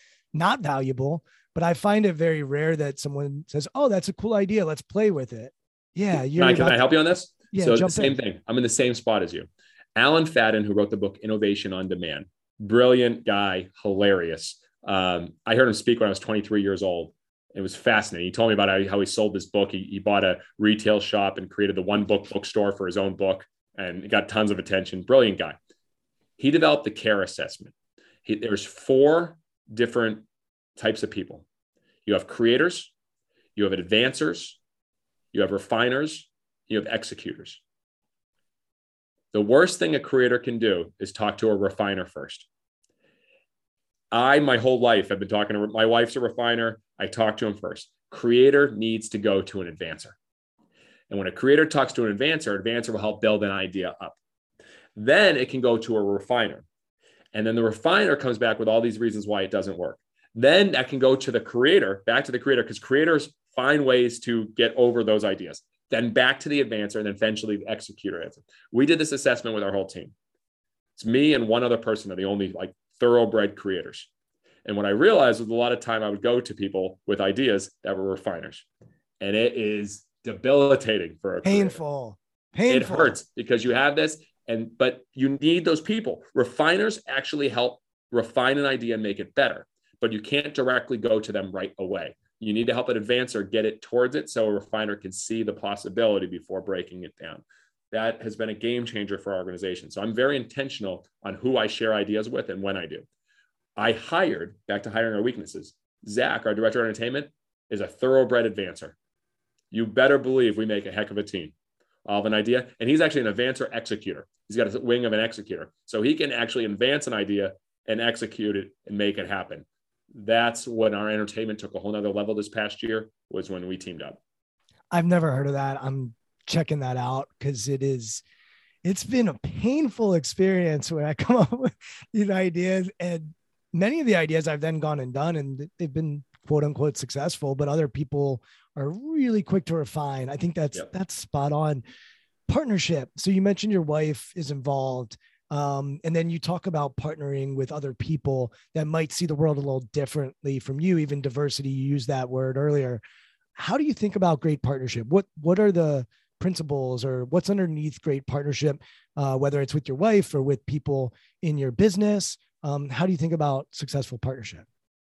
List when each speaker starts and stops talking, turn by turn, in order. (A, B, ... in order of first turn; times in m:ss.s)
0:00.3-0:06.8 A
0:06.4-0:25.6 B
0:07.5-0:08.2 A
0:26.4-0:27.7 B
0:28.2-0:30.2 B
0:30.8-0:31.4 B
0:32.1-0:32.9 B
0:33.6-0:34.6 B
0:35.3-0:37.6 B
0:39.3-0:42.5 B
0:44.1-0:50.2 B
0:51.1-0:54.2 B
0:55.0-0:56.6 B
0:57.3-1:10.1 B
1:11.0-1:14.1 B
1:14.6-1:18.7 B
1:19.2-1:21.8 B
1:21.4-1:23.2 A
1:22.7-1:43.0 B
1:43.8-1:49.0 B
1:49.7-1:51.5 B
1:52.1-2:04.2 B
2:04.9-2:08.2 A
2:08.8-2:21.8 A
2:22.5-2:33.0 A
2:33.6-2:44.7 A